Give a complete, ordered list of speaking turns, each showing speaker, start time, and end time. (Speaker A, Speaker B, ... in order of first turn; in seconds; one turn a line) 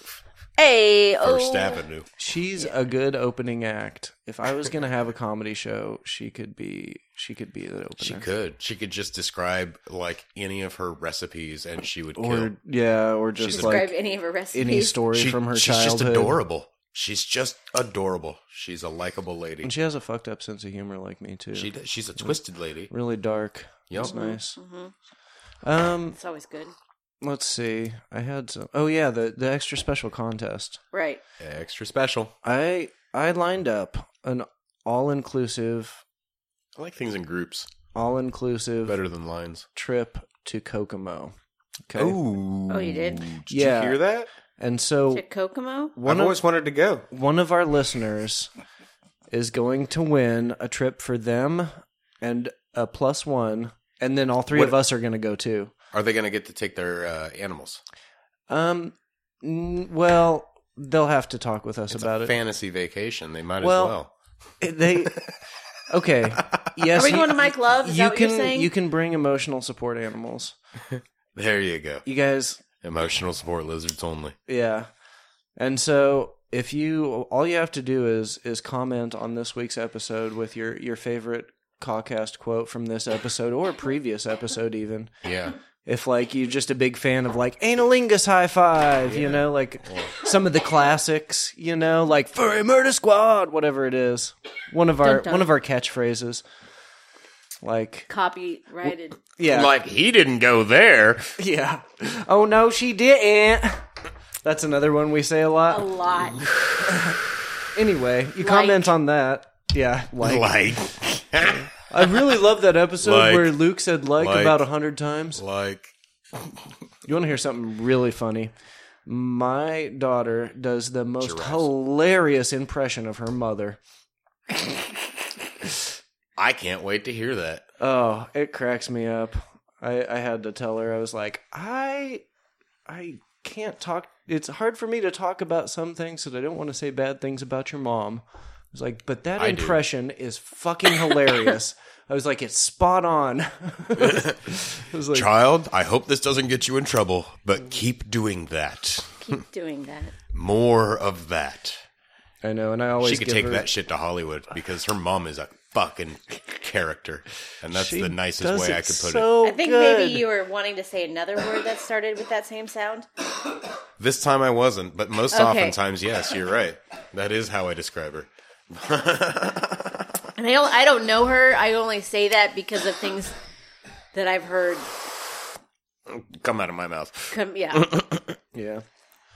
Speaker A: 0.6-1.8
Speaker B: 1.2-2.1
Speaker C: 2.2-8.2
Speaker B: 8.0-12.5
Speaker C: 12.2-13.9
Speaker B: 13.4-13.9
Speaker A: 13.5-15.0
Speaker C: 14.5-16.4
Speaker B: 15.1-19.7
Speaker C: 19.6-22.4
Speaker B: 21.5-22.9
Speaker C: 22.9-24.6
Speaker B: 23.9-24.2
Speaker A: 24.1-24.9
Speaker C: 25.6-26.2
Speaker A: 26.2-26.7
Speaker C: 27.2-30.8
Speaker A: 30.9-31.2
Speaker B: 31.4-32.3
Speaker C: 32.4-36.0
Speaker B: 36.8-37.7
Speaker C: 37.9-39.0
Speaker B: 38.9-39.7
Speaker C: 39.8-41.4
Speaker C: 41.9-42.2
Speaker B: 42.0-44.3
Speaker A: 42.7-43.3
Speaker C: 43.5-45.2
Speaker A: 45.1-45.9
Speaker C: 46.0-46.4
Speaker B: 46.0-47.0
Speaker C: 47.1-48.5
Speaker C: 49.3-55.7
Speaker B: 54.5-54.8
Speaker B: 55.9-57.8
Speaker C: 58.5-62.4
Speaker B: 61.9-64.1
Speaker C: 63.6-64.0
Speaker C: 64.6-65.3
Speaker B: 64.9-65.4
Speaker C: 65.9-70.6
Speaker B: 66.4-66.8
Speaker A: 67.0-68.7
Speaker B: 70.9-72.1
Speaker C: 72.0-72.6
Speaker B: 72.8-74.4
Speaker C: 74.5-74.9
Speaker C: 75.6-85.1
Speaker B: 85.2-85.6
Speaker C: 85.9-96.4
Speaker B: 89.1-90.2
Speaker A: 95.0-95.5
Speaker C: 97.6-98.1
Speaker A: 98.1-99.2
Speaker C: 99.4-99.7
Speaker B: 99.4-101.3
Speaker C: 101.4-103.9
Speaker C: 104.4-105.9
Speaker A: 105.7-106.4
Speaker C: 106.9-107.2
Speaker C: 107.7-115.4
Speaker A: 108.4-108.9
Speaker B: 110.2-112.3
Speaker B: 113.0-113.6
Speaker B: 114.2-114.7
Speaker B: 115.4-115.9
Speaker C: 117.0-118.5
Speaker C: 119.1-123.8
Speaker B: 121.2-121.7
Speaker C: 124.5-124.8
Speaker B: 126.4-127.6
Speaker C: 127.8-132.2
Speaker C: 132.9-145.3
Speaker B: 139.4-139.8
Speaker B: 144.0-149.3
Speaker A: 149.2-150.1
Speaker B: 150.3-151.8
Speaker C: 152.4-153.7
Speaker B: 153.0-159.3
Speaker C: 157.7-160.3
Speaker A: 159.4-163.1
Speaker B: 164.0-170.1
Speaker A: 165.3-165.8
Speaker A: 170.3-173.3
Speaker A: 174.1-174.9
Speaker B: 176.1-178.3
Speaker A: 177.3-177.9
Speaker C: 178.5-178.8